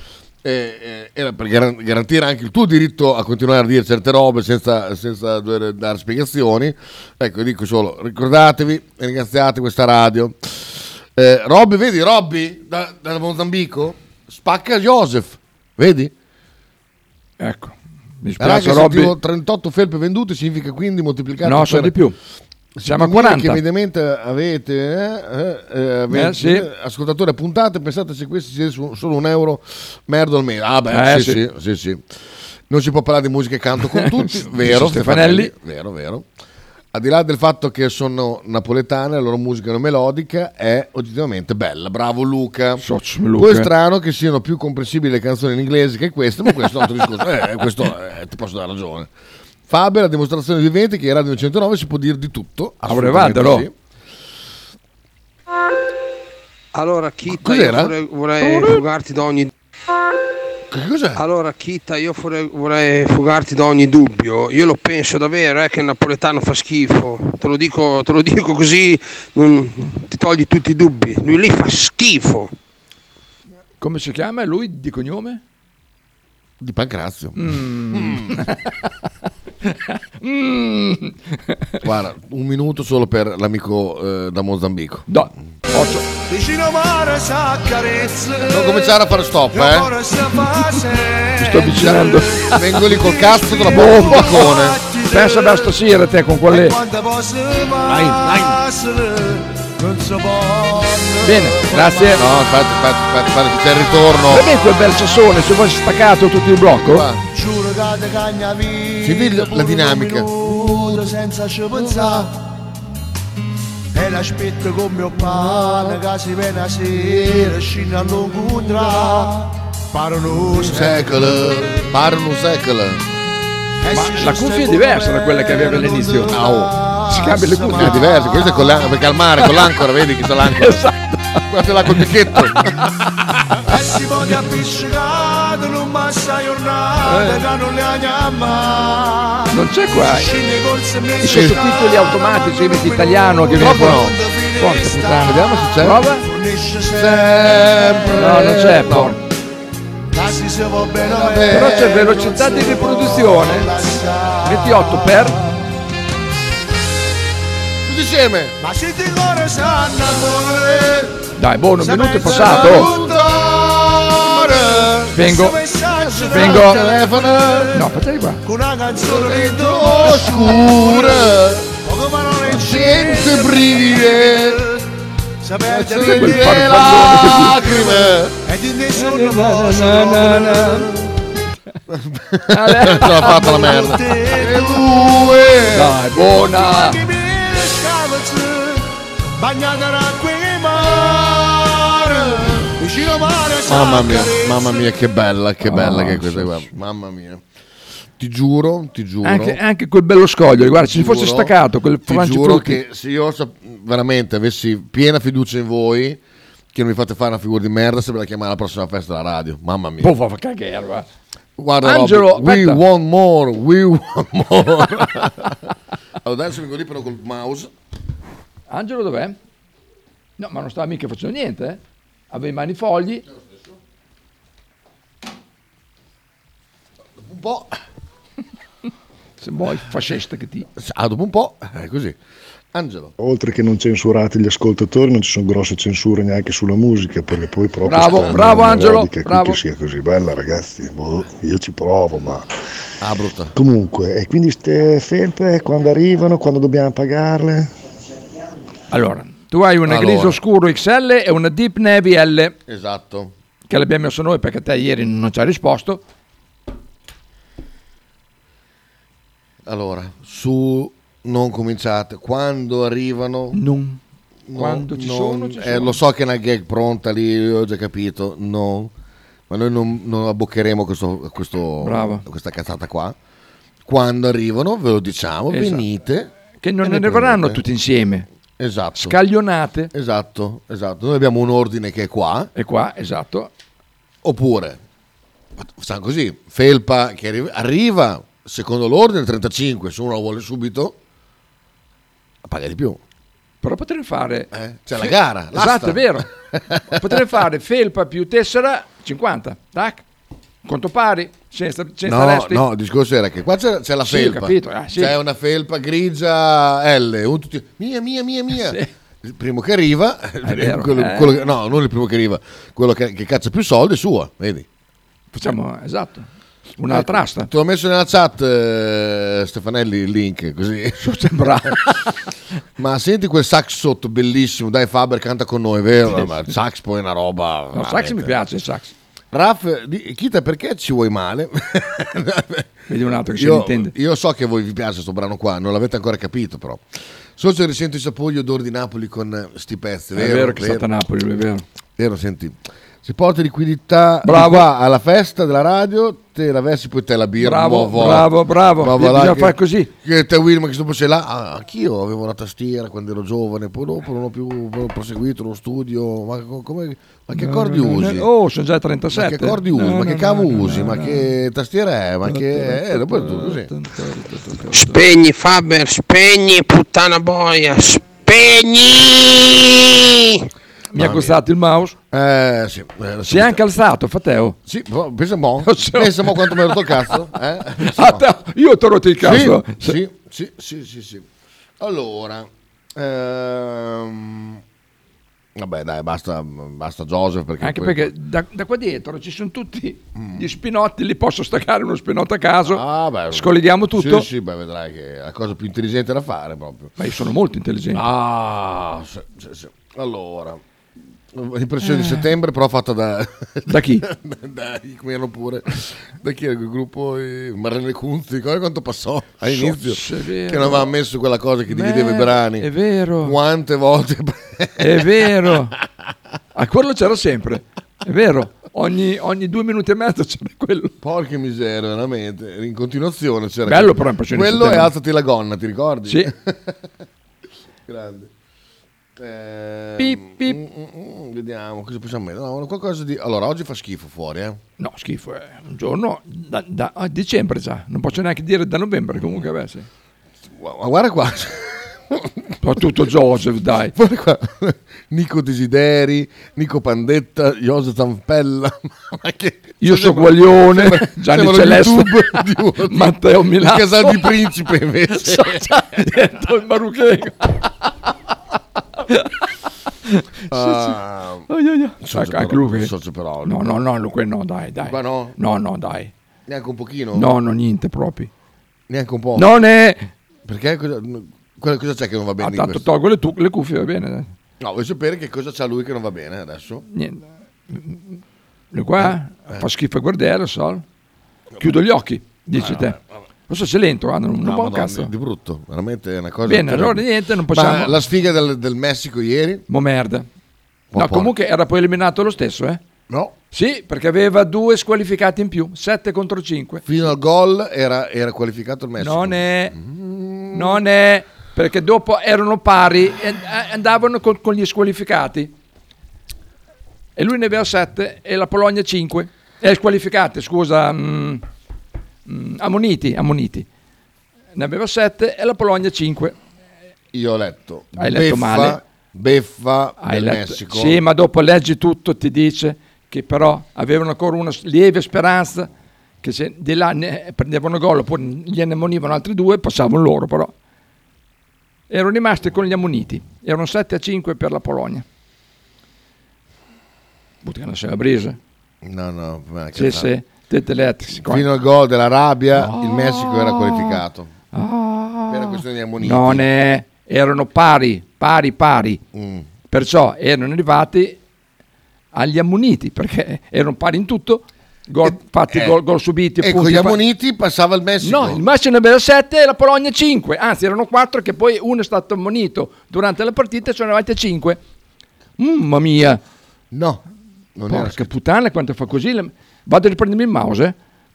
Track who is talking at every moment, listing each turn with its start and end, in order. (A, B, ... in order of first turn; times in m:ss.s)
0:00.4-0:16.1 A
0:17.4-0:19.1 B
0:18.4-0:21.9 A
0:21.4-0:22.2 B
0:22.8-0:32.0 A
0:22.8-0:23.6 B
0:26.1-0:26.7 B
0:30.9-0:31.4 B
0:32.7-0:36.2 A
0:34.0-0:35.5 B
0:36.9-0:42.8 A
0:42.8-0:43.7 B
0:43.3-0:49.1 A
0:49.7-0:53.7 A
0:52.8-0:53.7 B
0:56.7-0:59.5 C
0:57.3-0:58.0 A
1:00.7-1:01.2 A
1:01.2-1:12.5 C
1:13.8-1:15.4 B
1:16.6-1:18.4 A
1:17.4-1:18.7 B
1:19.6-1:21.8 B
1:21.8-1:25.1 A
1:25.1-1:26.1 B
1:26.3-1:28.8 D
1:28.4-1:29.9 A
1:29.5-1:32.2 D
1:31.4-1:32.8 B
1:31.8-1:34.8 A
1:32.8-1:35.7 D
1:33.7-1:34.5 B
1:35.1-1:36.8 B
1:36.5-1:42.1 D
1:37.8-1:38.6 A
1:41.2-1:42.2 B
1:42.1-1:44.5 A
1:44.3-1:47.1 B
1:46.7-1:47.2 A
1:47.3-1:52.4 D
1:49.0-1:51.1 A
1:51.7-1:52.0 A
1:53.9-2:01.4 D
1:55.3-1:56.0 A
1:57.2-1:57.5 A
2:00.6-2:03.0 A
2:03.8-2:08.6 D
2:03.9-2:06.4 B
2:06.3-2:06.8 A
2:07.1-2:08.1 B
2:07.7-2:10.8 A
2:10.5-2:12.8 B
2:11.5-2:12.9 A
2:13.7-2:25.5 D
2:17.0-2:17.4 B
2:19.5-2:20.3 B
2:21.2-2:26.2 B
2:21.2-2:21.6 A
2:23.5-2:24.2 A
2:25.1-2:26.0 A
2:26.2-2:28.1 D
2:26.9-2:29.2 A
2:28.1-2:29.2 B
2:30.1-2:35.3 D
2:31.0-2:32.2 A
2:31.5-2:33.7 B
2:34.4-2:35.4 B
2:37.8-2:38.6 A
2:38.6-2:41.1 D
2:41.4-2:42.9 B
2:41.8-2:43.3 D
2:42.2-2:45.2 A
2:44.4-2:47.7 D
2:45.1-2:45.6 B
2:46.1-2:47.8 A
2:46.3-2:46.8 B
2:47.7-2:48.4 B
2:48.4-2:54.8 D
2:48.9-2:51.7 A
2:52.4-2:54.6 A
2:55.4-2:56.6 D
2:55.6-2:58.4 A
2:55.9-2:57.7 B
2:58.4-3:01.1 D
2:58.9-3:00.9 B
3:01.9-3:06.0 A
3:02.5-3:03.9 B
3:03.3-3:04.9 D
3:05.7-3:07.0 B
3:06.2-3:14.9 D
3:12.4-3:12.7 A
3:13.6-3:17.4 A
3:15.6-3:16.7 B
3:18.2-3:19.6 A
3:19.2-3:22.8 B
3:20.6-3:21.5 A
3:22.0-3:26.2 A
3:26.7-3:30.1 A
3:30.0-3:31.1 B
3:31.6-3:35.6 A
3:31.8-3:32.8 B
3:36.2-3:37.7 A
3:38.7-3:39.4 B
3:40.4-3:43.2 B
3:47.2-3:47.8 A
3:49.4-3:50.7 B
3:50.8-3:52.2 A
3:52.7-3:53.1 A
3:53.2-4:02.4 E
3:57.8-3:59.6 B
4:03.0-4:03.5 A
4:03.5-4:07.7 E
4:08.9-4:12.5 B
4:09.8-4:10.4 A
4:12.7-4:13.3 A
4:13.7-4:16.0 B
4:19.6-4:23.6 A
4:23.5-4:24.0 B
4:24.5-4:28.9 A
4:24.5-4:26.0 B
4:29.5-4:33.2 A
4:31.8-4:32.2 B
4:33.8-4:36.3 A
4:35.5-4:35.8 B
4:36.6-4:38.2 B
4:36.8-4:37.6 A
4:38.6-4:39.2 A
4:39.0-4:39.9 B
4:39.9-4:42.5 A
4:42.5-4:43.5 B
4:44.2-4:44.8 A
4:45.6-4:51.0 A
4:52.4-4:53.0 A
4:53.6-4:56.3 B
4:54.5-4:57.2 A
4:56.9-5:00.0 B
5:00.6-5:02.6 B
5:02.0-5:14.7 A
5:04.0-5:05.2 B
5:08.5-5:08.9 B
5:10.4-5:11.5 B
5:15.3-5:16.3 B
5:16.8-5:17.5 B
5:16.9-5:21.8 A
5:21.0-5:22.1 B
5:22.8-5:28.4 A
5:26.1-5:26.3 B
5:27.7-5:28.9 B
5:29.3-5:32.7 A
5:32.9-5:33.9 B
5:33.3-5:36.8 A
5:37.4-5:40.9 A
5:40.1-5:41.6 B
5:42.0-5:58.3 A
5:44.2-5:44.7 B
5:47.4-5:49.9 B
5:57.3-6:01.3 B
5:59.1-6:03.7 A
6:02.2-6:05.0 B
6:04.7-6:10.4 C
6:10.9-6:12.0 B
6:10.9-6:11.4 A
6:12.1-6:13.6 A
6:13.3-6:14.6 B
6:14.6-6:18.2 A
6:15.6-6:17.1 B
6:17.8-6:20.0 B
6:19.2-6:21.2 A
6:21.8-6:24.6 A
6:25.5-6:28.1 A
6:27.6-6:34.3 B
6:30.2-6:30.4 A
6:32.6-6:36.9 A
6:37.0-6:38.0 B
6:37.9-6:40.6 A
6:41.3-6:52.7 A
6:41.8-6:42.3 B
6:43.7-6:44.0 B
6:49.5-6:50.9 B
6:51.7-6:53.4 B
6:53.2-6:55.5 A
6:54.8-6:55.8 B
6:56.5-7:00.9 B
7:01.0-7:06.8 A
7:03.6-7:04.9 B
7:07.9-7:08.3 A
7:09.2-7:14.6 A
7:10.0-7:10.6 B
7:14.8-7:19.9 B
7:20.5-7:22.5 A
7:22.6-7:23.9 B
7:23.9-7:36.3 A
7:29.8-7:34.4 B
7:35.1-7:37.7 B
7:40.1-7:41.0 B
7:40.5-7:41.5 A
7:41.5-7:42.9 B
7:42.0-7:43.6 A
7:43.4-7:46.1 B
7:44.8-7:45.4 A
7:46.5-7:47.3 A
7:47.1-7:48.3 B
7:48.9-7:49.5 A
7:49.3-7:50.1 B
7:50.4-7:52.9 A
7:52.4-7:54.3 B
7:54.6-7:56.8 A
7:56.9-7:58.2 B
7:58.7-8:00.8 B
7:59.0-7:59.6 A
8:01.6-8:03.0 B
8:02.5-8:03.0 A
8:03.5-8:05.1 B
8:04.4-8:09.6 A
8:06.4-8:08.0 B
8:09.7-8:10.3 B
8:10.9-8:11.3 A
8:10.9-8:12.8 B
8:13.1-8:13.3 A
8:13.5-8:16.8 B
8:16.8-8:20.8 A
8:19.0-8:19.8 B
8:20.5-8:25.5 B
8:27.2-8:31.4 B
8:32.2-8:33.7 B
8:34.5-8:36.4 B
8:37.1-8:41.0 A
8:38.0-8:38.8 B
8:40.0-8:45.7 B
8:46.2-8:50.5 B
8:51.9-8:55.0 B
8:57.4-8:58.4 B
8:58.8-9:00.1 A
8:59.7-9:01.5 B
9:01.1-9:04.3 A
9:02.5-9:09.0 B
9:05.3-9:06.5 A
9:09.1-9:09.5 A
9:09.7-9:11.2 B
9:12.1-9:17.0 B
9:15.0-9:15.8 A
9:16.4-9:18.4 A
9:18.0-9:24.6 B
9:25.4-9:26.2 B
9:26.7-9:27.0 A
9:27.5-9:28.1 A
9:27.7-9:30.7 B